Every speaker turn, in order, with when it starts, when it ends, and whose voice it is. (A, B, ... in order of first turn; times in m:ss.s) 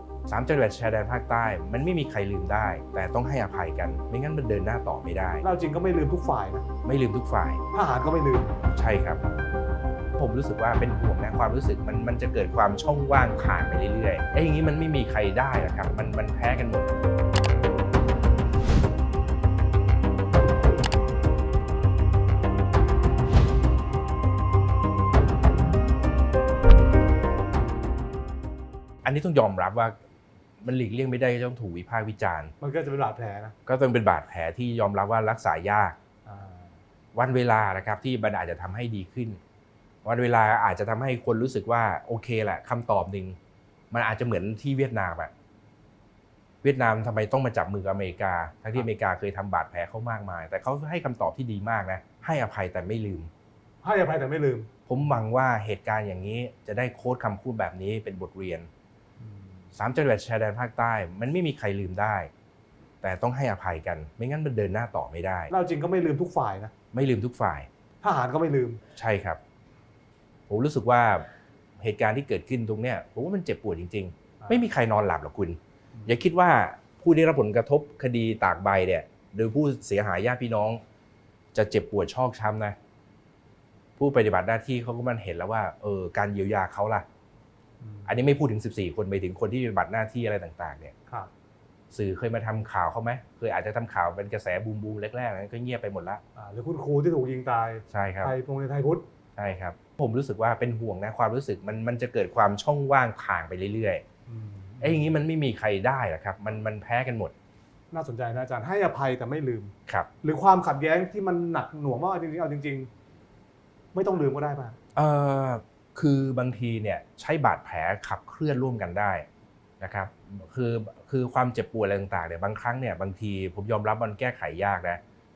0:00.3-0:05.4 A
0:05.4-0:06.6 B
0:06.8-0:07.6 A
0:07.7-0:08.5 B
0:08.7-0:09.2 A
0:10.2-0:16.9 A
0:29.0-0:30.0 A
0:30.6-0:32.5 A
0:32.6-0:33.6 B
0:33.7-0:36.0 A
0:36.2-0:36.8 B
0:37.2-0:39.4 A
0:40.0-0:43.4 A
0:43.9-0:45.3 A
0:46.6-0:53.3 A
0:53.8-0:54.7 B
0:54.9-0:58.7 A
0:59.2-0:59.7 B
0:59.7-1:02.3 A
1:03.0-1:05.5 A
1:05.5-1:06.7 B
1:06.9-1:07.7 A
1:08.0-1:08.8 B
1:08.9-1:09.4 A
1:10.5-1:11.3 A
1:11.8-1:20.8 A
1:21.6-1:22.8 A
1:24.0-1:27.0 A
1:27.8-1:28.2 B
1:28.1-1:30.9 A
1:31.9-1:36.2 A
1:36.4-1:39.1 B
1:37.9-1:38.3 A
1:39.4-1:44.0 A
1:44.3-1:45.2 B
1:44.8-1:47.3 A
1:47.9-1:52.9 B
1:53.9-1:54.8 B
1:55.0-1:59.3 A
1:59.8-2:05.0 A